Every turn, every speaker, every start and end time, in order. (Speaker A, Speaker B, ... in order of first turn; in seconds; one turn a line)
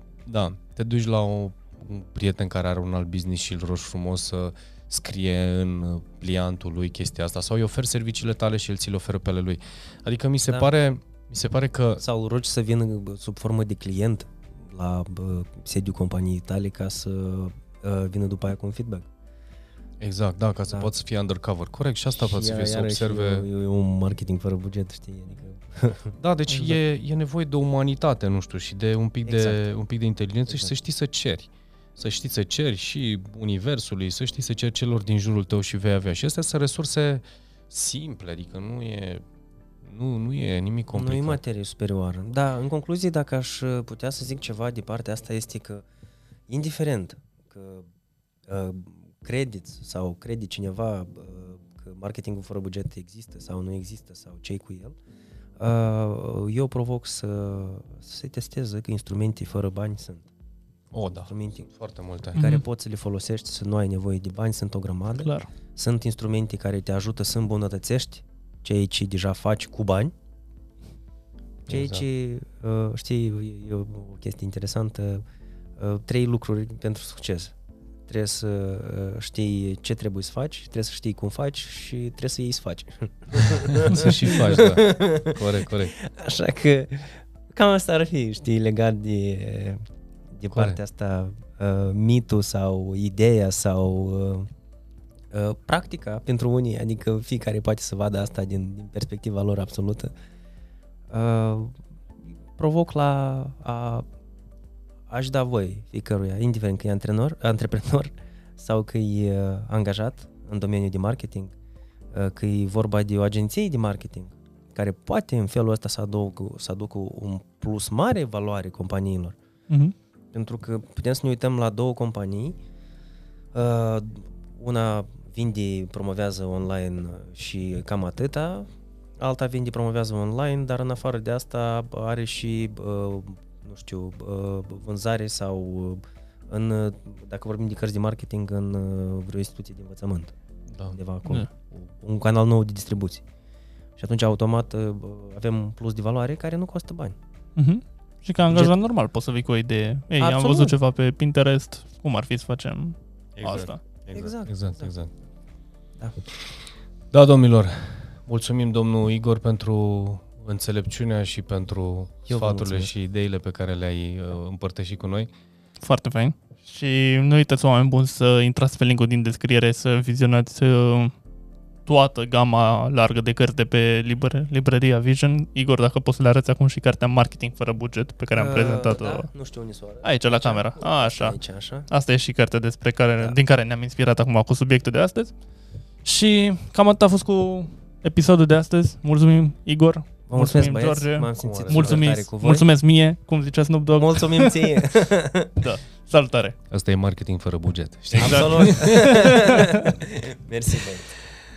Speaker A: 0.3-12.0
Speaker B: 12.0-19.1
Speaker A: 20.0-23.5
Speaker B: 22.2-26.1
Speaker A: 26.2-39.2
Speaker B: 29.2-29.6
Speaker A: 39.8-41.4
Speaker B: 40.9-45.9
Speaker B: 46.5-47.9
Speaker B: 48.5-55.0
Speaker B: 55.6-60.3
Speaker A: 60.9-62.4
Speaker B: 61.3-61.7
Speaker B: 62.3-70.1
Speaker C: 62.4-62.6
Speaker C: 65.2-65.5
Speaker B: 71.7-75.2
Speaker A: 71.7-72.0
Speaker B: 75.8-77.5
Speaker B: 78.1-89.8
Speaker A: 83.5-86.0
Speaker B: 90.4-94.5
Speaker A: 90.5-90.8
Speaker B: 95.3-100.1
Speaker B: 101.1-101.8
Speaker B: 102.6-104.0
Speaker B: 105.1-111.5
Speaker B: 112.1-119.4
Speaker C: 119.7-120.0
Speaker B: 120.3-122.6
Speaker B: 123.5-128.7
Speaker B: 129.2-140.3
Speaker A: 140.7-141.0
Speaker B: 140.9-143.2
Speaker B: 144.0-147.2
Speaker C: 147.6-153.8
Speaker B: 150.2-150.8
Speaker A: 153.4-155.1
Speaker B: 154.1-154.9
Speaker A: 157.1-165.3
Speaker B: 162.3-162.9
Speaker C: 165.8-171.1
Speaker C: 171.9-179.3
Speaker B: 178.3-181.9
Speaker C: 180.0-185.3
Speaker C: 186.0-194.7
Speaker B: 190.3-192.7
Speaker A: 191.5-192.1
Speaker B: 193.9-195.6
Speaker C: 195.6-196.6
Speaker A: 196.7-198.9
Speaker C: 198.1-199.8
Speaker B: 198.2-201.2